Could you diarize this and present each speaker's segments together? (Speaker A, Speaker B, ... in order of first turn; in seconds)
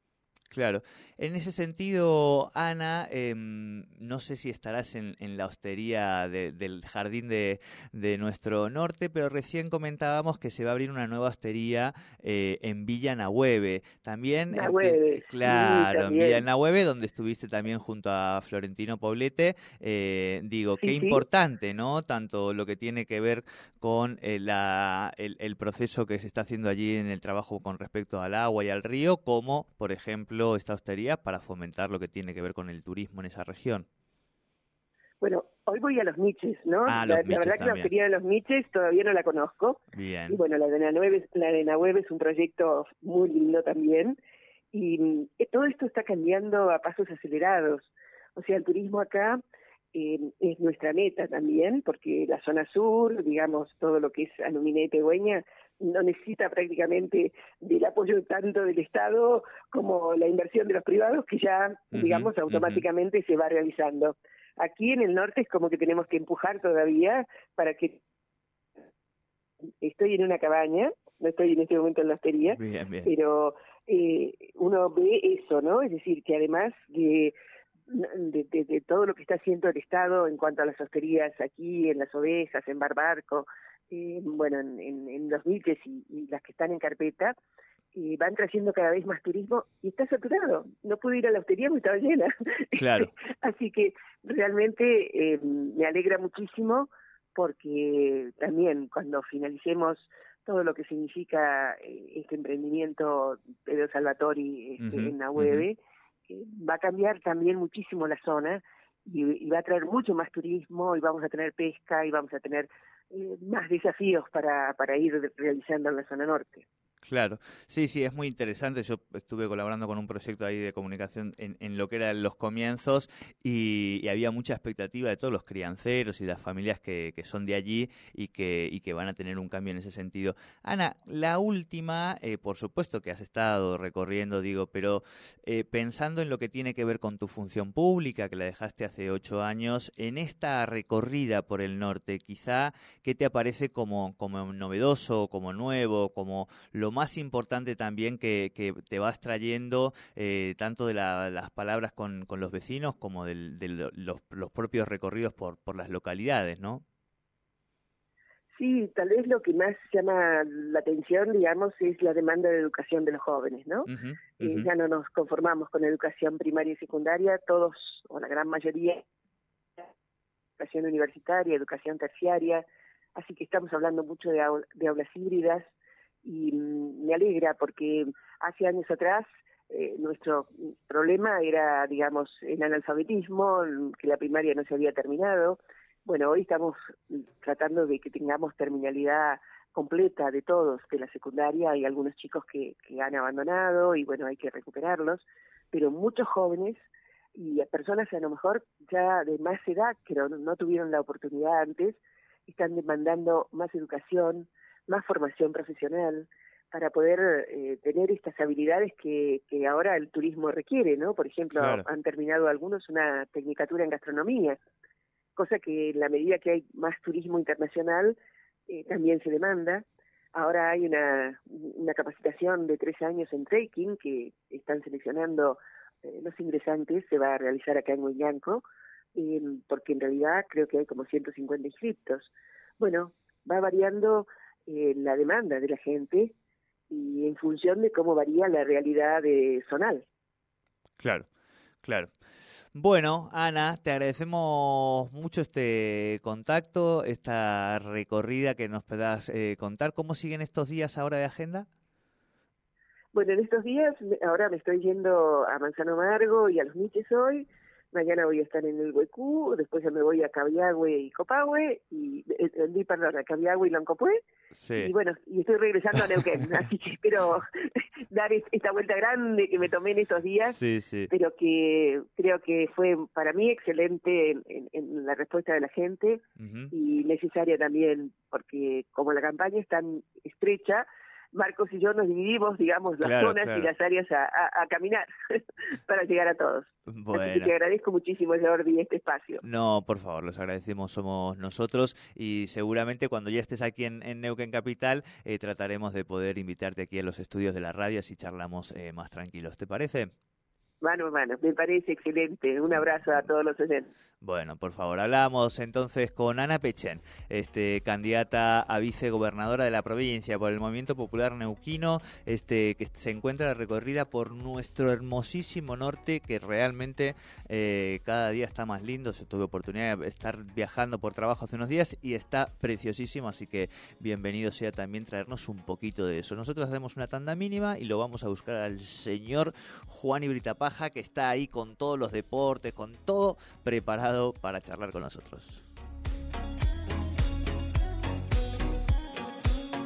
Speaker A: 0.5-33.9, 36.9-37.9, 39.9-40.4, 61.9-62.8, 72.5-73.1, 92.7-93.1, 104.8-105.7, 117.0-156.8, 163.9-164.7, 211.5-211.8, 241.0-241.2, 241.8-242.1, 242.7-251.7, 264.6-264.9, 270.5-271.1, 276.4-276.7, 283.0-283.7, 286.9-287.5, 289.4-300.1, 304.2-335.6
Speaker B: 14.5-16.4, 20.8-21.2, 35.2-44.2, 44.7-49.4, 49.9-68.0, 69.8-77.3, 77.9-87.3, 87.9-116.7, 158.5-169.0, 170.6-172.6, 173.1-175.7, 176.2-196.8, 197.3-214.6, 215.3-218.2, 218.7-228.6, 229.1-236.3, 236.9-240.1, 253.1-264.2, 264.7-270.6, 271.1-289.4, 300.8-303.9